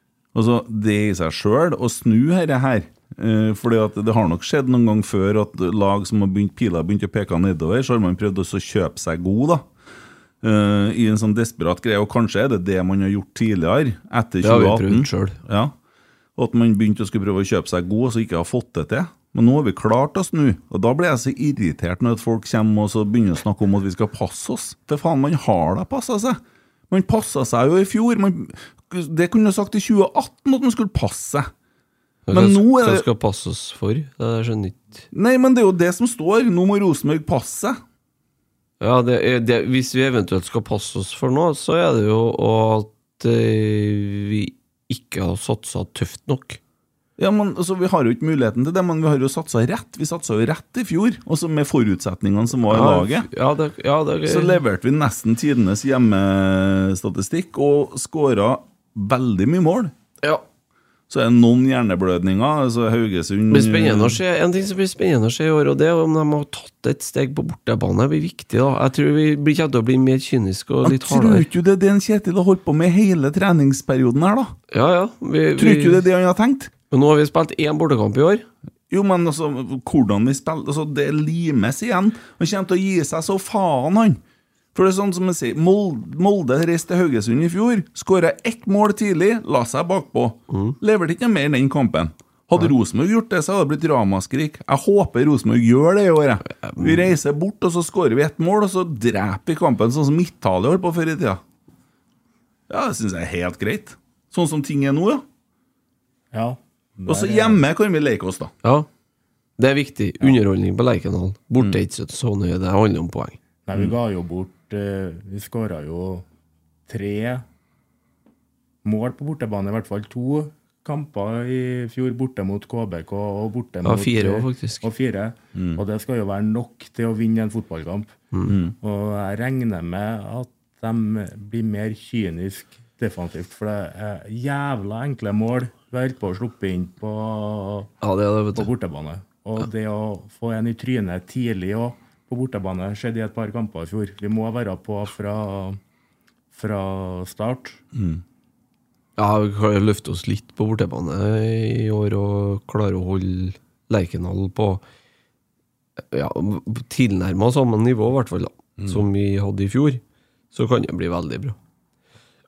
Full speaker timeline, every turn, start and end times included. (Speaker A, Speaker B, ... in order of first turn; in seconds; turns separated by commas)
Speaker A: 0.3-9.7, Speaker A: 10.4-15.7, Speaker B: 14.4-15.4, Speaker A: 16.4-31.5, Speaker B: 32.3-35.0, Speaker A: 32.3-33.0, Speaker A: 35.1-37.8, Speaker B: 38.8-46.6, Speaker A: 47.2-53.3, Speaker B: 52.7-54.6, Speaker A: 54.2-59.9, Speaker A: 61.1-64.2, Speaker B: 63.5-71.5, Speaker A: 70.8-74.5, Speaker B: 74.7-76.0, Speaker A: 75.5-76.7, Speaker B: 76.9-78.5, Speaker A: 78.9-84.2, Speaker A: 84.7-101.4, Speaker B: 90.5-90.8, Speaker B: 96.6-97.1, Speaker A: 102.7-105.2, Speaker C: 106.3-107.6, Speaker A: 107.1-108.5, Speaker B: 109.6-113.4, Speaker C: 113.7-116.2, Speaker C: 116.9-117.4, Speaker C: 118.8-128.1, Speaker B: 123.8-124.8, Speaker A: 125.5-125.8, Speaker A: 128.5-128.7, Speaker C: 128.8-137.9, Speaker B: 138.0-138.7, Speaker C: 138.5-145.8, Speaker C: 146.5-147.8, Speaker A: 147.9-148.2, Speaker B: 149.2-154.8, Speaker B: 156.1-160.0, Speaker A: 158.8-159.0, Speaker B: 160.5-161.6